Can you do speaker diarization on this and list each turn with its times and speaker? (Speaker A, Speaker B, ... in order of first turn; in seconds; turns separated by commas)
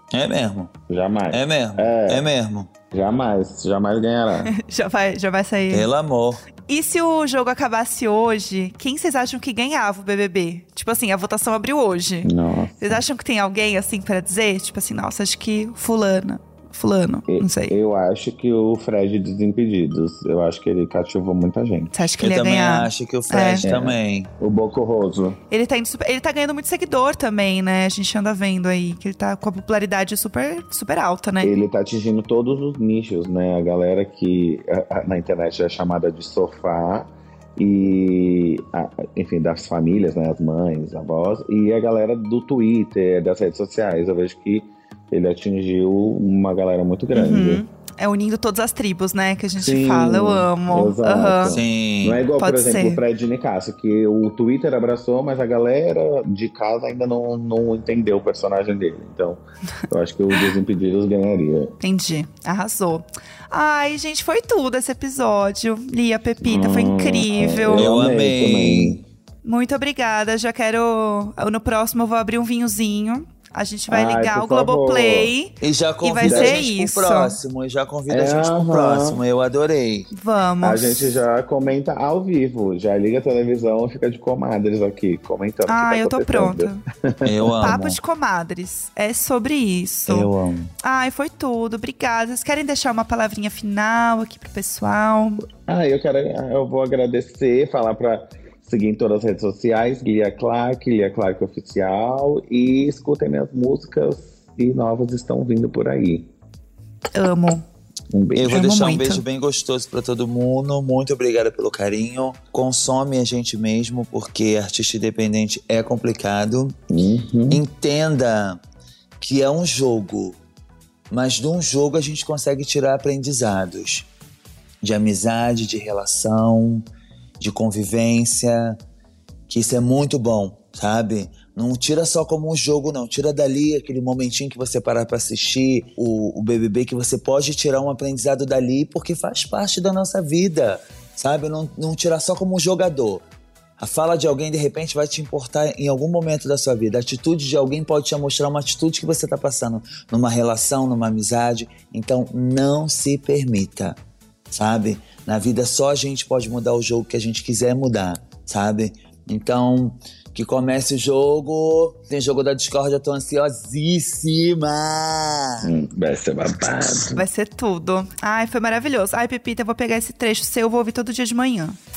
Speaker A: 0.1-0.7, Speaker B: 0.9-2.3, Speaker A: 1.3-2.7, Speaker B: 2.9-4.5, Speaker C: 4.5-5.9, Speaker A: 5.7-6.4, Speaker C: 6.7-17.8, Speaker B: 12.2-13.0, Speaker B: 17.3-21.9, Speaker C: 21.9-23.7, Speaker A: 22.2-24.3, Speaker B: 23.6-25.4, Speaker C: 25.5-31.5, Speaker B: 31.4-47.6, Speaker C: 47.1-51.6, Speaker B: 49.6-61.8, Speaker A: 51.5-52.3, Speaker C: 52.4-53.0, Speaker C: 61.8-67.9, Speaker B: 66.4-69.0, Speaker A: 67.7-69.0, Speaker C: 69.4-77.4, Speaker B: 73.9-75.3, Speaker A: 75.6-80.1, Speaker B: 76.2-76.6, Speaker B: 78.1-79.2, Speaker C: 80.1-81.1, Speaker B: 80.6-87.8, Speaker C: 85.7-86.8, Speaker A: 87.2-88.0, Speaker C: 87.6-95.5, Speaker A: 90.1-90.7, Speaker B: 95.7-106.3, Speaker C: 107.1-107.7, Speaker B: 108.1-108.6, Speaker A: 108.3-116.8, Speaker C: 108.5-109.2, Speaker B: 116.9-117.6, Speaker A: 117.5-118.6, Speaker A: 119.2-120.4, Speaker A: 121.1-124.1, Speaker A: 124.8-126.8, Speaker A: 127.4-128.8, Speaker A: 129.5-143.2, Speaker A: 143.8-154.0, Speaker A: 154.5-165.7, Speaker B: 165.6-167.2, Speaker C: 166.9-171.8